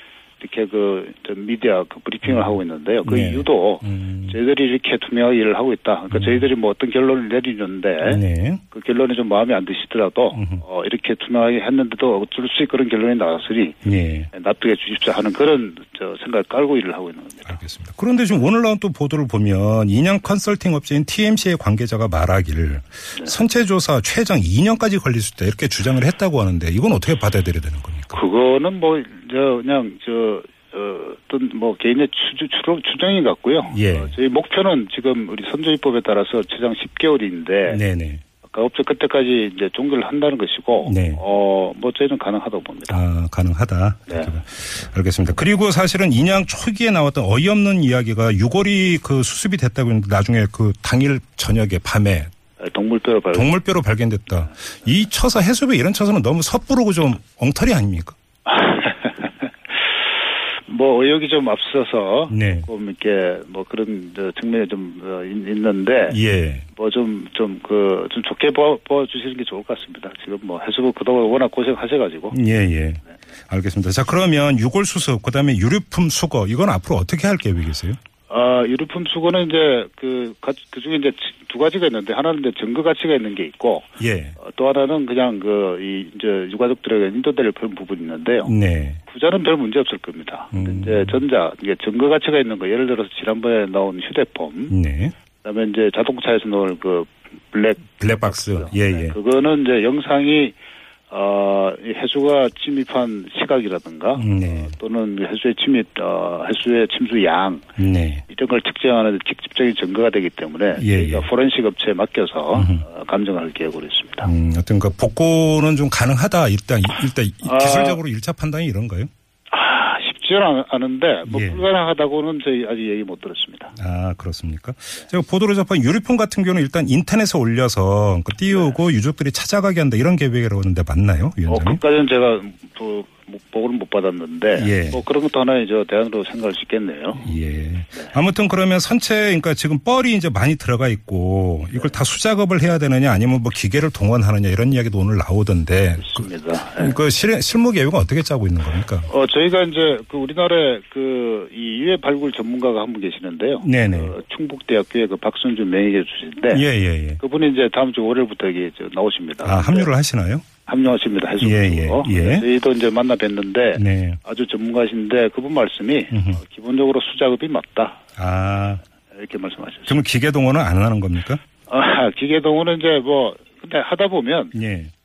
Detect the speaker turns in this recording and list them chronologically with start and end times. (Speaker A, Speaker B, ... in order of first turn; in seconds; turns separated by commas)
Speaker A: 0.4-13.8, Speaker B: 2.2-4.4, Speaker B: 6.1-6.5, Speaker B: 8.0-8.6, Speaker B: 10.3-10.6, Speaker B: 13.8-14.3, Speaker A: 14.3-17.6, Speaker B: 17.5-28.2, Speaker A: 28.1-37.8, Speaker B: 33.7-34.1, Speaker B: 37.7-38.2, Speaker A: 38.4-43.0, Speaker B: 40.8-41.2, Speaker B: 42.9-52.3, Speaker A: 44.1-44.3, Speaker A: 52.6-53.5, Speaker B: 53.3-58.2, Speaker A: 54.5-54.9, Speaker A: 58.5-59.8, Speaker A: 60.6-66.2, Speaker B: 62.3-62.7, Speaker B: 66.1-66.7, Speaker A: 66.7-72.4, Speaker B: 72.3-78.0, Speaker A: 78.3-88.5, Speaker B: 84.0-84.4, Speaker B: 88.4-89.0, Speaker A: 89.1-94.8, Speaker B: 90.5-91.2, Speaker B: 94.7-95.2, Speaker A: 95.4-100.6, Speaker B: 98.0-99.2, Speaker A: 101.1-107.7, Speaker B: 104.2-104.7, Speaker B: 107.8-108.2, Speaker A: 108.3-114.3, Speaker B: 110.8-111.3, Speaker B: 112.5-112.8, Speaker B: 114.2-119.1, Speaker A: 117.4-118.0, Speaker A: 119.5-123.7, Speaker B: 121.3-121.7, Speaker B: 123.8-131.8, Speaker A: 128.5-128.8, Speaker A: 131.5-137.3, Speaker B: 134.5-135.0, Speaker B: 137.2-149.1, Speaker A: 141.7-142.0, Speaker A: 146.0-147.0, Speaker A: 149.0-156.7, Speaker B: 153.6-154.1, Speaker B: 156.5-157.2, Speaker A: 157.2-159.9, Speaker B: 159.4-160.4, Speaker A: 160.7-168.0, Speaker B: 161.4-162.5, Speaker B: 163.8-164.2, Speaker B: 166.1-166.4, Speaker B: 168.2-168.8, Speaker A: 169.1-170.0, Speaker B: 169.9-171.4, Speaker A: 171.7-174.5, Speaker B: 174.5-174.9